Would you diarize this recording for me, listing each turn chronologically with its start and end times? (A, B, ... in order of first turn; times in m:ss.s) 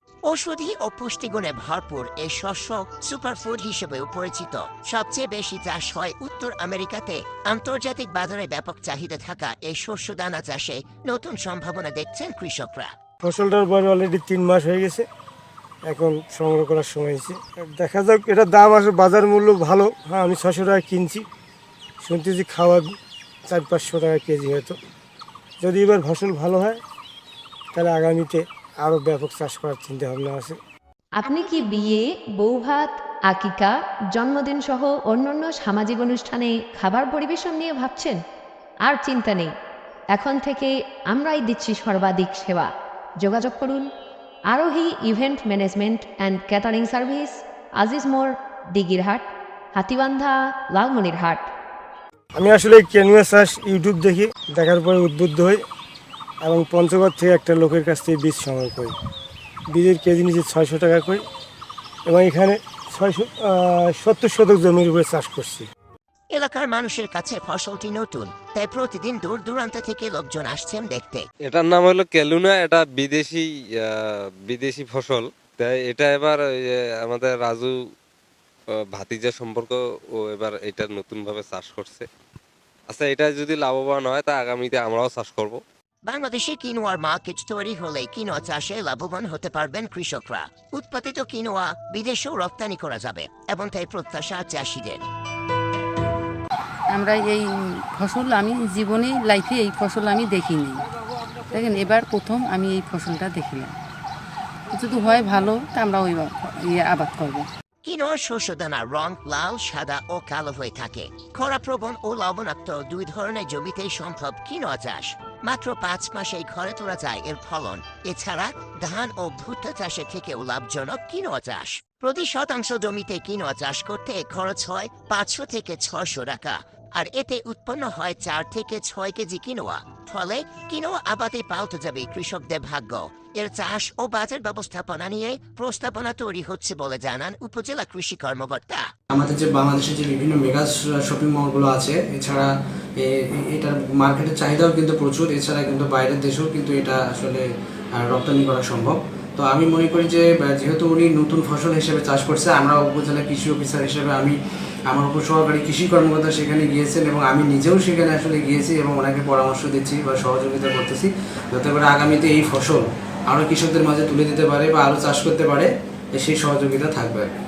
0:00.2-0:12.9 A
0:13.2-0:15.0 B
0:15.8-0:21.2 B
0:22.0-0:23.0 B
0:23.5-0:24.8 B
0:25.6-0:26.8 B
0:27.7-0:30.6 B
0:31.2-0:38.2 C
0:38.8-0:39.5 C
0:40.1-0:42.7 C
0:43.2-0:43.9 C
0:44.5-0:51.5 C
0:52.3-0:55.6 B
0:56.4-0:58.9 B
0:59.7-1:01.2 B
1:02.1-1:05.7 B
1:06.3-1:11.2 A
1:11.4-1:17.7 D
1:18.9-1:22.0 D
1:22.9-1:25.6 D
1:26.0-1:35.0 A
1:36.9-1:40.8 E
1:41.5-1:43.7 E
1:44.7-1:47.5 E
1:47.8-2:18.8 A
2:19.1-2:34.4 F
2:34.9-2:47.3 F